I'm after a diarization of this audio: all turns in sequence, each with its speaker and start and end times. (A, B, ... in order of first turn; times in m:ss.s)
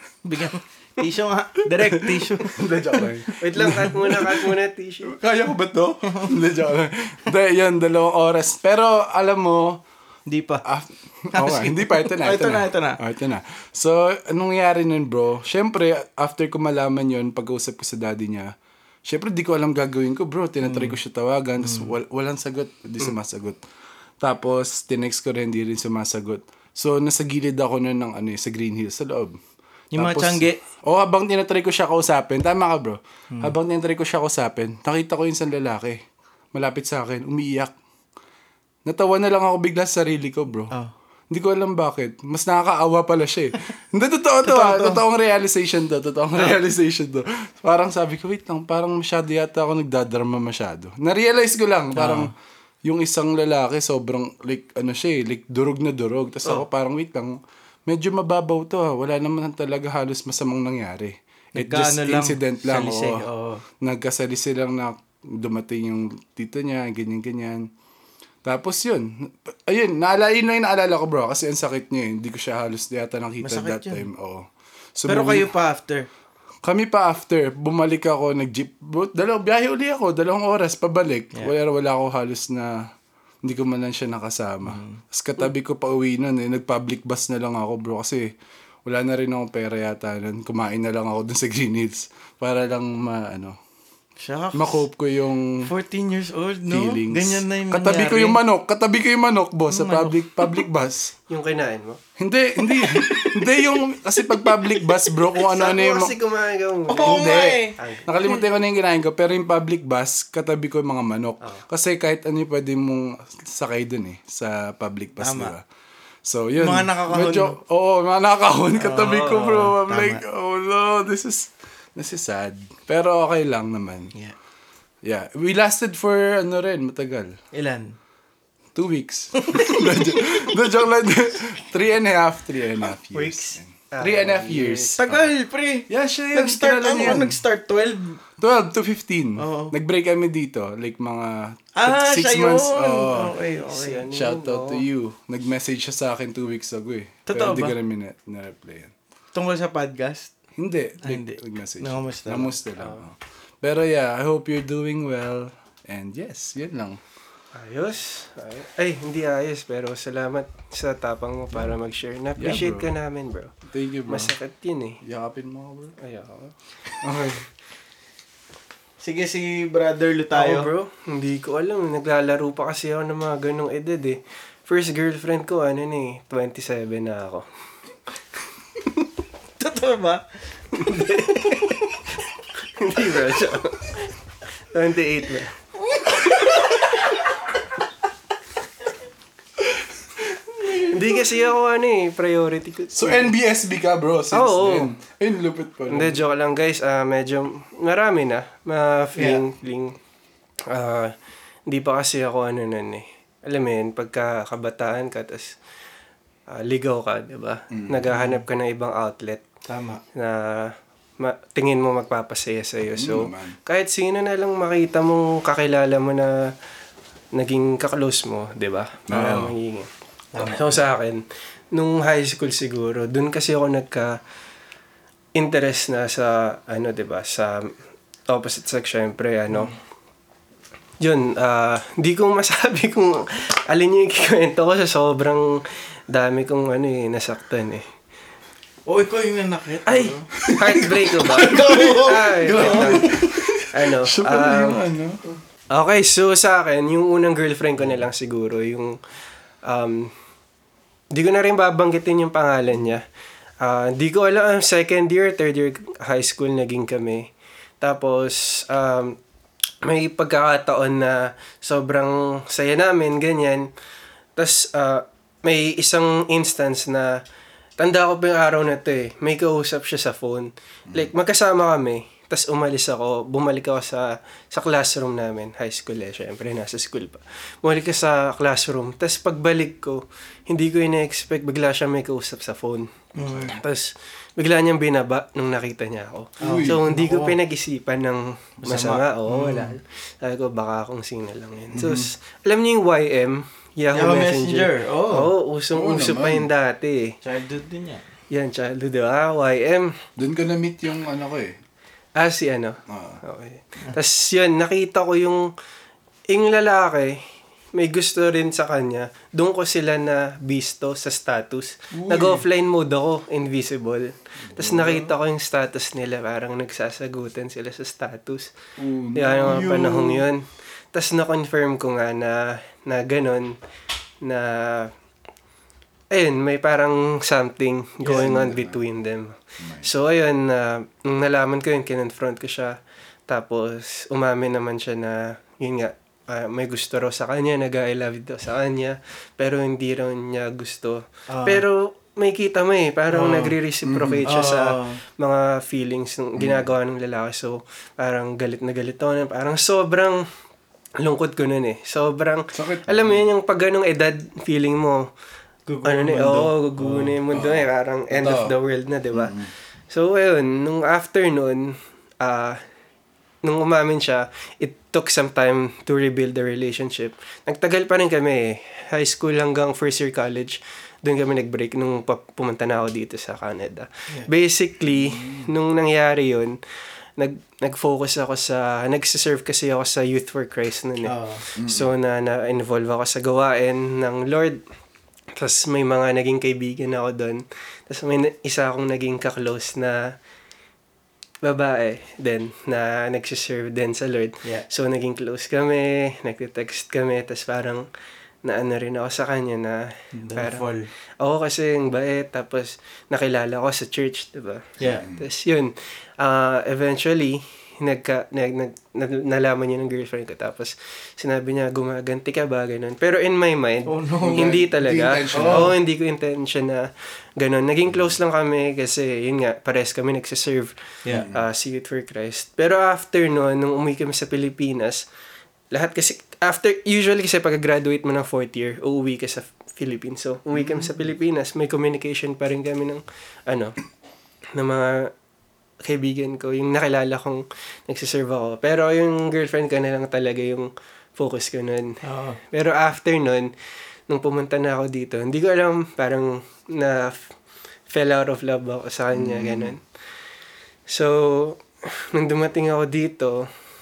0:00.2-0:03.0 A
0:01.7-0:09.8 B
0:03.4-0:05.2 C
0:06.1-0:06.3 A
0:10.3-0:10.6 A
0:10.6-0:18.5 B
0:11.3-0:13.0 A
0:19.1-0:23.6 B
0:20.6-0:21.0 A
0:21.6-0:21.9 A
0:24.2-0:29.4 B
0:29.9-0:30.6 A
0:30.0-0:36.0 B
0:36.5-0:37.7 B
0:38.8-0:40.7 B
0:41.3-0:52.3 B
0:44.4-0:45.0 A
0:52.0-0:52.3 A
0:52.8-1:03.2 B
1:01.6-1:03.6 A
1:03.8-1:07.7 B
1:08.4-1:15.5 B
1:13.4-1:14.1 A
1:15.1-1:16.1 A
1:16.6-1:22.8 B
1:23.4-1:28.3 B
1:24.6-1:25.0 A
1:28.8-1:33.6 B
1:34.2-1:34.9 A
1:34.5-1:35.7 B
1:35.6-1:38.4 A
1:36.7-1:41.2 B
1:39.7-1:40.6 A
1:41.3-1:42.0 C
1:42.2-1:46.1 B
1:42.6-1:43.7 A
1:44.2-1:45.2 A
1:45.4-1:48.4 C
1:46.9-1:47.8 A
1:47.0-1:55.6 B
1:55.2-1:55.5 A
1:56.2-2:04.1 B
1:56.6-1:57.6 A
1:58.8-2:00.2 A
2:05.0-2:07.4 B
2:07.5-2:08.0 A
2:08.8-2:15.3 B
2:09.4-2:10.5 A
2:13.1-2:13.6 A
2:13.9-2:15.0 C
2:15.0-2:18.2 A
2:15.9-2:17.4 B
2:18.4-2:23.4 B
2:19.4-2:19.7 A
2:21.8-2:24.1 A
2:23.6-2:24.8 C
2:24.1-2:28.9 B
2:27.3-2:27.8 A
2:29.3-2:30.3 A
2:30.6-2:37.0 B
2:31.0-2:32.5 A
2:37.6-2:43.5 C
2:42.4-2:42.9 B
2:43.6-2:44.4 B
2:44.1-2:45.0 C
2:45.0-2:46.0 B
2:46.0-2:46.5 C
2:47.0-2:47.4 B
2:49.0-2:50.7 A
2:50.3-2:57.4 C
2:59.6-3:00.2 A
3:00.7-3:01.8 C
3:01.4-3:01.8 A
3:02.8-3:04.1 C
3:04.7-3:05.5 C
3:05.8-3:07.2 A
3:09.6-3:11.0 B
3:10.8-3:13.3 C
3:12.9-3:16.2 B
3:14.3-3:14.9 C
3:15.9-3:20.0 C
3:19.2-3:19.4 A
3:20.7-3:21.1 C
3:21.7-3:25.6 C
3:26.5-3:29.4 C
3:27.7-3:28.1 B
3:29.7-3:30.0 A
3:30.1-3:36.5 C
3:32.9-3:33.6 B
3:37.3-3:44.2 C
3:39.1-3:39.6 B
3:40.3-3:40.8 A
3:45.4-3:47.7 C
3:48.3-3:49.8 C
3:51.0-3:57.9 C
3:58.9-4:00.3 A
3:59.9-4:03.2 C
4:00.4-4:02.0 B
4:01.3-4:03.2 A
4:02.6-4:05.2 B
4:03.7-4:04.8 C
4:05.7-4:09.0 C
4:09.6-4:10.1 C
4:11.1-4:13.0 C
4:13.6-4:19.2 C
4:19.8-4:23.7 C
4:24.4-4:27.2 C
4:27.8-4:42.9 C
4:43.2-4:43.6 A
4:43.4-4:57.2 C
4:46.4-4:47.4 A
4:46.4-4:46.8 B
4:48.6-4:49.8 A
4:51.7-4:52.1 B
4:53.9-4:55.3 A
4:55.7-4:56.5 B
4:57.2-4:58.0 A
4:58.3-4:59.9 C
5:00.2-5:01.6 B
5:02.2-5:05.5 C
5:02.9-5:03.2 B
5:06.3-5:07.2 C
5:07.8-5:18.5 C
5:11.9-5:12.5 B
5:14.5-5:15.1 B
5:18.8-5:20.3 B
5:19.2-5:23.6 C
5:24.2-5:24.9 C
5:26.1-5:32.8 C
5:28.0-5:28.8 B
5:29.6-5:29.9 B
5:33.3-5:50.2 C
5:41.3-5:41.6 A
5:43.1-5:43.5 A
5:43.8-5:44.3 B
5:44.2-5:45.0 A
5:46.4-5:46.7 B
5:51.0-5:55.1 C
5:52.5-5:53.2 B
5:55.7-5:57.2 A
5:55.8-5:59.4 C
5:57.3-5:58.5 B
5:59.1-5:59.5 B
5:59.9-6:02.6 C
6:03.4-6:16.6 C
6:14.9-6:15.5 B
6:17.2-6:24.6 C
6:21.0-6:21.4 A
6:21.6-6:21.9 B
6:25.4-6:30.1 C
6:31.4-6:37.9 C
6:38.4-7:05.0 C
6:40.2-6:40.9 A
6:44.8-6:45.1 A
6:44.9-6:45.3 B
6:53.9-6:54.6 A
6:54.2-6:55.8 B
6:55.3-6:55.7 A
7:01.1-7:01.4 B
7:05.7-7:13.8 C
7:14.6-7:15.1 C
7:15.8-7:23.5 C
7:22.0-7:22.4 A
7:24.1-7:27.2 C
7:27.9-7:29.8 C
7:29.1-7:29.8 B
7:30.9-7:33.5 C